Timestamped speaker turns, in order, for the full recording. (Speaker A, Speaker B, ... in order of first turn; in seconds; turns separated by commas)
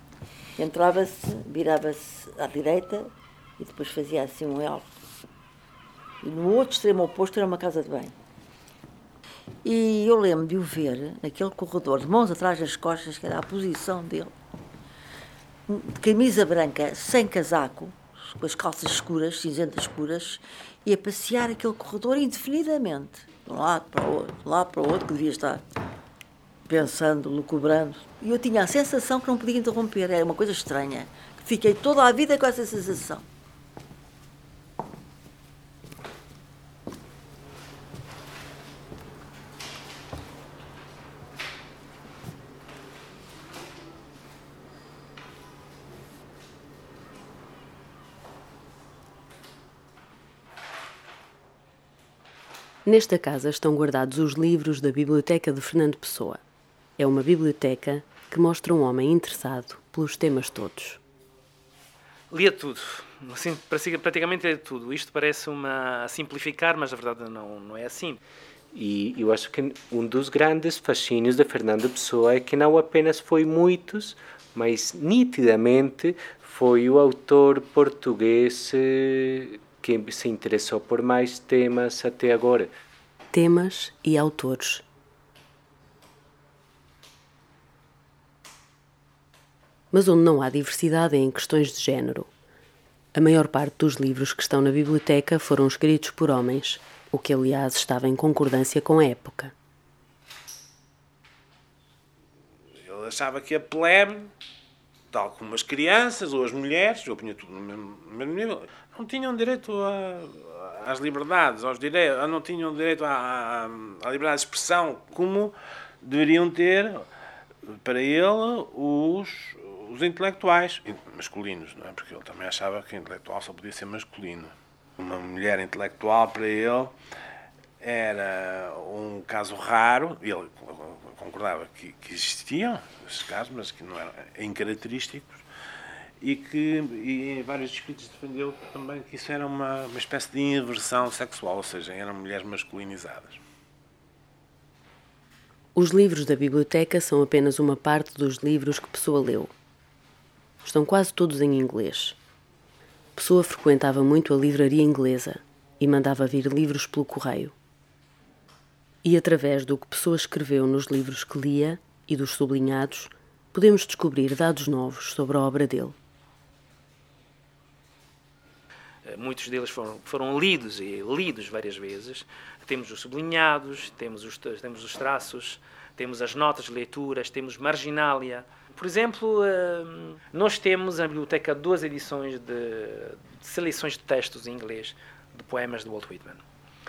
Speaker A: 0.6-4.9, Speaker A: 6.2-8.2, Speaker A: 9.6-14.3, Speaker A: 15.7-25.6, Speaker A: 26.7-33.2, Speaker B: 52.9-56.4, Speaker B: 57.0-61.0, Speaker C: 62.3-68.2, Speaker D: 68.7-82.7, Speaker B: 83.3-84.8, Speaker B: 89.9-92.3, Speaker B: 93.1-99.5, Speaker E: 102.8-104.3, Speaker E: 105.1-117.0, Speaker E: 117.7-126.9, Speaker E: 127.8-135.4, Speaker E: 136.2-143.4, Speaker B: 145.8-149.5, Speaker B: 150.6-152.2, Speaker B: 153.2-157.6, Speaker B: 159.0-166.0, Speaker C: 169.1-186.4